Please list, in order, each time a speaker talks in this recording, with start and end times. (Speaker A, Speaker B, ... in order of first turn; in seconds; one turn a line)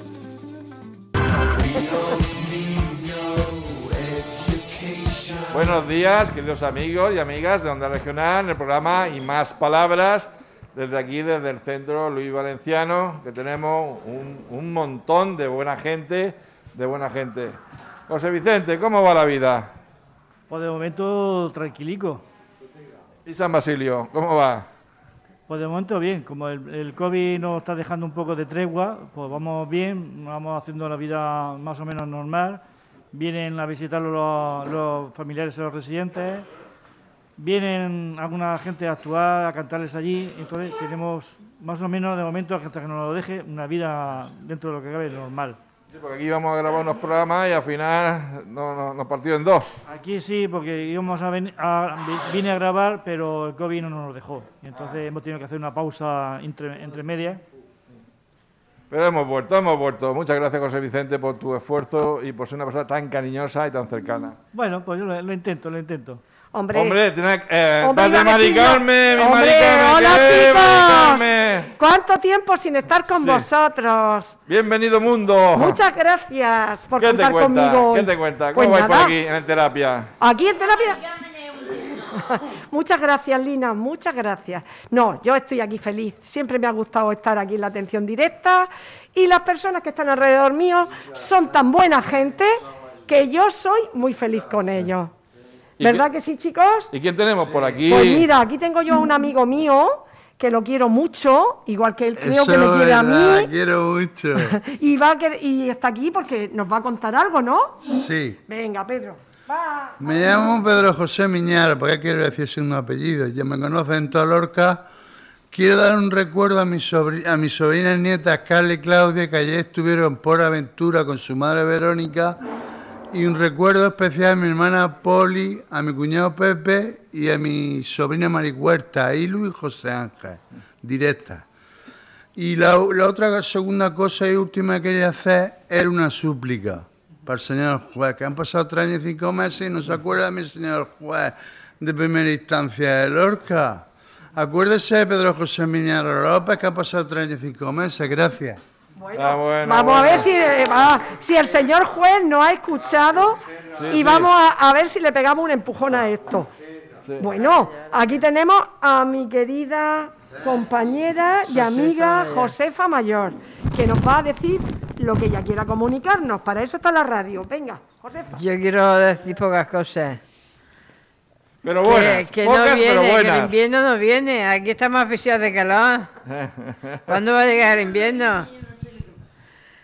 Speaker A: 5.5-17.6
Speaker A: 18.1-19.7
Speaker B: 20.5-22.2
Speaker A: 23.3-24.6
Speaker B: 25.5-36.5
Speaker B: 37.4-45.6
Speaker A: 45.9-49.7
Speaker B: 49.9-57.4
Speaker A: 58.9-64.4
Speaker B: 64.5-66.2
Speaker C: 66.5-67.0
Speaker A: 66.7-71.7
Speaker C: 67.8-71.2
Speaker C: 71.8-74.4
Speaker A: 73.0-73.5
Speaker A: 74.5-75.8
Speaker C: 75.6-79.2
Speaker A: 77.0-80.1
Speaker C: 80.2-81.0
Speaker C: 82.0-95.1
Speaker C: 95.8-96.9
Speaker A: 96.9-98.3
Speaker C: 97.8-103.5
Speaker D: 102.3-104.5
Speaker C: 104.3-107.8
Speaker D: 107.9-108.4
Speaker C: 108.5-110.5
Speaker D: 110.0-114.8
Speaker D: 115.5-122.4
Speaker D: 123.1-131.4
Speaker D: 132.4-143.8
Speaker D: 144.4-148.6
Speaker C: 149.0-156.5
Speaker A: 149.2-150.3
Speaker A: 153.8-154.3
Speaker C: 157.2-168.4
Speaker E: 161.7-162.5
Speaker E: 168.3-170.2
Speaker A: 171.6-173.6
Speaker E: 171.8-176.1
Speaker A: 176.3-177.2
Speaker E: 177.1-178.5